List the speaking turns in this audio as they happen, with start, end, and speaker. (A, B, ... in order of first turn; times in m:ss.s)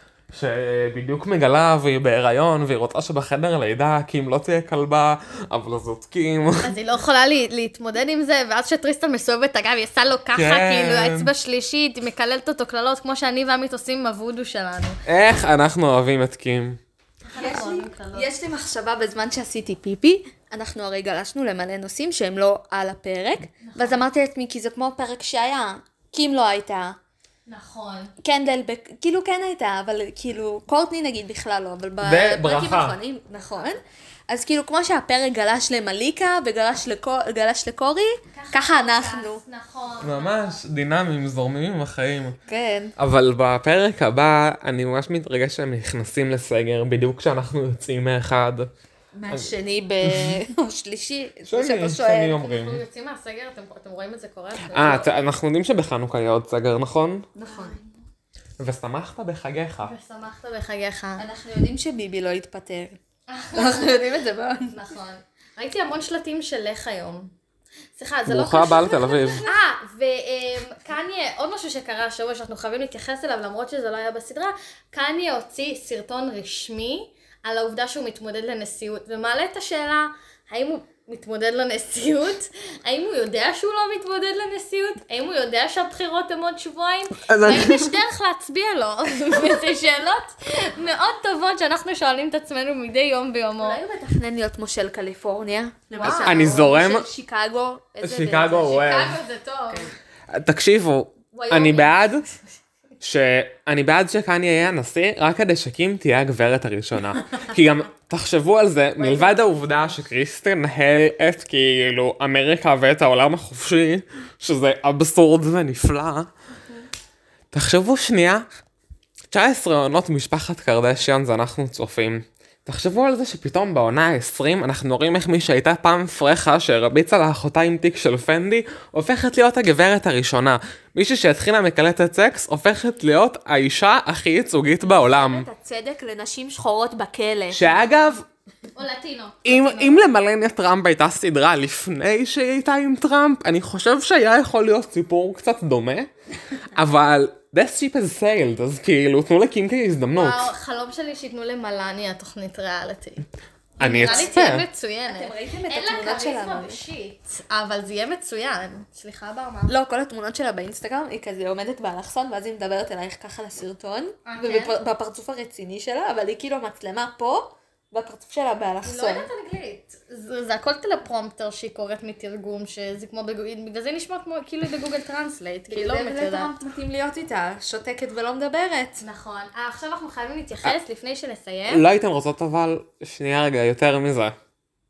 0:00.3-0:06.7 A
0:06.6-0:15.0 B
0:10.3-0:11.3 A
0:15.0-0:16.8 A
0:17.2-0:18.3 B
0:17.3-0:27.0 C
0:23.6-0:24.0 B
0:27.4-0:28.1 B
0:28.2-0:39.4 C
0:32.0-0:33.0 A
0:33.3-0:33.8 B
0:38.3-0:40.6 B
0:40.0-0:42.4 A
0:42.5-0:42.9 C
0:43.0-0:48.7 A
0:49.1-0:52.4 C
0:49.3-0:50.4 A
0:51.4-0:52.8 A
0:52.3-0:55.1 B
0:54.7-0:57.2 A
0:57.3-0:57.8 C
0:57.4-0:58.0 B
0:58.6-0:59.9 A
0:59.8-1:01.2 B
1:01.2-1:03.0 C
1:03.3-1:07.3 B
1:03.5-1:04.7 C
1:08.0-1:33.8 B
1:08.2-1:09.4 A
1:27.2-1:27.9 A
1:33.6-1:38.8 C
1:35.9-1:36.7 B
1:36.0-1:37.1 A
1:38.0-1:39.2 A
1:38.5-1:39.9 B
1:40.3-1:42.2 A
1:41.4-1:42.2 B
1:43.0-1:56.3 A
1:49.0-1:49.4 C
1:57.5-1:58.4 A
1:59.3-2:15.5 A
2:14.8-2:17.7 C
2:17.5-2:18.2 A
2:18.7-2:20.1 B
2:19.4-2:26.1 A
2:26.7-2:30.5 A
2:30.1-2:33.2 B
2:33.8-2:34.5 C
2:33.8-2:34.6 A
2:33.8-2:39.7 B
2:35.1-2:36.8 C
2:39.7-2:49.3 C
2:44.2-2:44.8 B
2:48.8-2:56.5 B
2:55.7-2:59.0 C
2:59.0-3:01.8 B
3:01.7-3:04.3 A